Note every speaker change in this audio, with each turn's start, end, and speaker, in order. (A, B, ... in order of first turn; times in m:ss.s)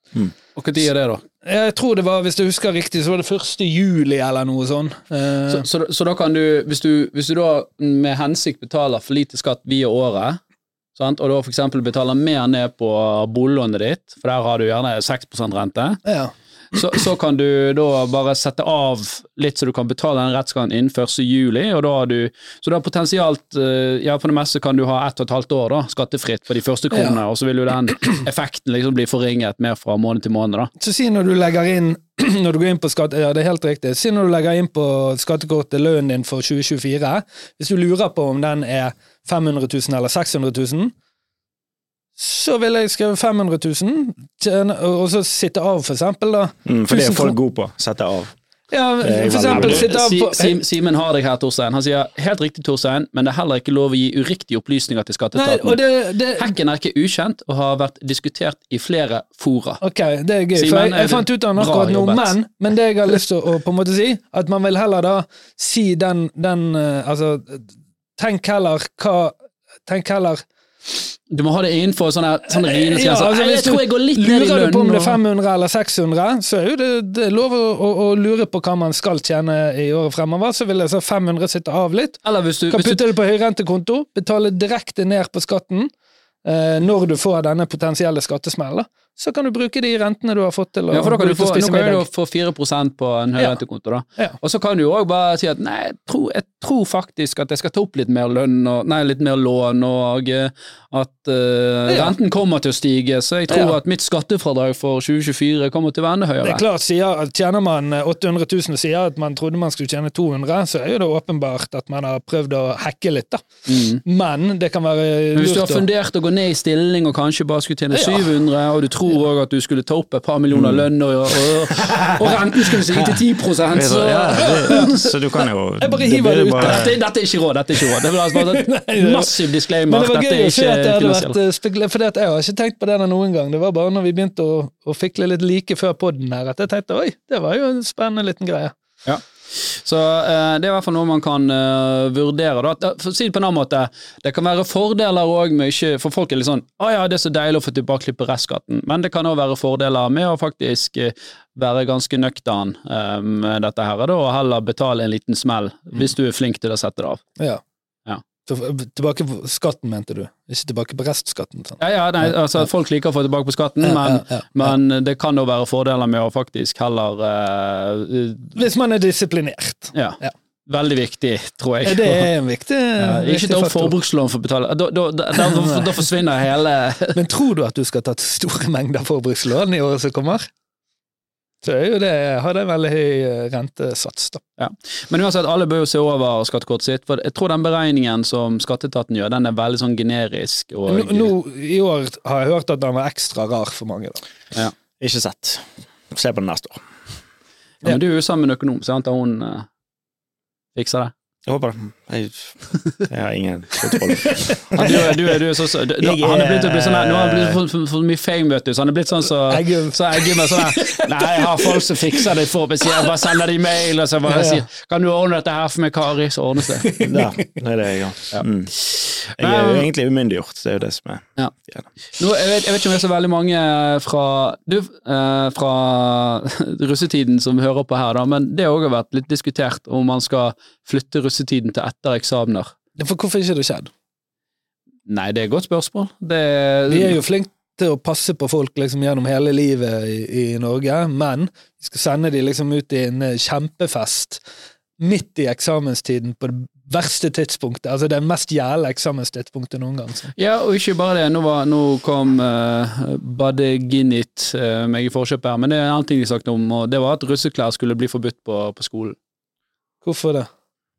0:00.6-0:01.2 A
0:01.4-0:05.6 B
0:05.5-0:10.4 A
0:10.9-0:16.0 A
0:16.0-0:17.0 B
0:16.7-0:30.7 A
0:26.9-0:27.2 B
0:30.8-0:40.9 B
0:42.2-0:47.4 B
0:46.6-0:48.3 C
0:48.7-0:50.6 B
0:49.0-0:49.9 C
0:49.4-0:59.8 A
0:55.3-0:56.5 B
0:59.8-1:10.4 B
1:00.5-1:02.4 A
1:11.3-1:15.2 A
1:12.5-1:25.9 B
1:22.2-1:23.0 A
1:26.4-1:32.0 B
1:30.9-1:46.6 A
1:41.9-1:42.2 B
1:43.5-1:43.8 B
1:46.4-1:53.5 B
1:53.7-1:54.0 A
1:54.0-1:55.8 B
1:55.3-2:05.0 A
1:57.9-1:58.3 B
2:00.5-2:00.8 C
2:01.7-2:02.3 C
2:03.7-2:06.9 C
2:05.8-2:06.9 B
2:06.6-2:11.4 A
2:08.3-2:09.4 B
2:09.9-2:18.7 B
2:19.0-2:37.2 A
2:38.4-2:42.6 B
2:41.8-2:48.6 A
2:43.8-2:44.7 B
2:48.5-2:50.3 B
2:49.9-2:52.3 A
2:51.8-2:54.0 B
2:53.0-2:57.2 A
2:55.4-2:56.0 B
2:57.1-3:00.5 B
3:01.6-3:04.4 B
3:04.6-3:11.3 A
3:10.9-3:14.2 B
3:15.0-3:16.8 C
3:17.8-3:19.7 A
3:20.8-3:21.1 A
3:21.4-3:25.2 C
3:24.7-3:36.9 A
3:26.0-3:27.6 C
3:29.5-3:31.9 B
3:36.8-3:37.4 B
3:37.0-3:41.9 C
3:39.4-3:39.9 A
3:42.1-3:52.7 A
3:53.0-3:53.9 B
3:55.1-3:57.2 A
3:56.9-4:04.4 B
4:05.0-4:10.3 B
4:10.3-4:19.2 A
4:20.0-4:20.5 B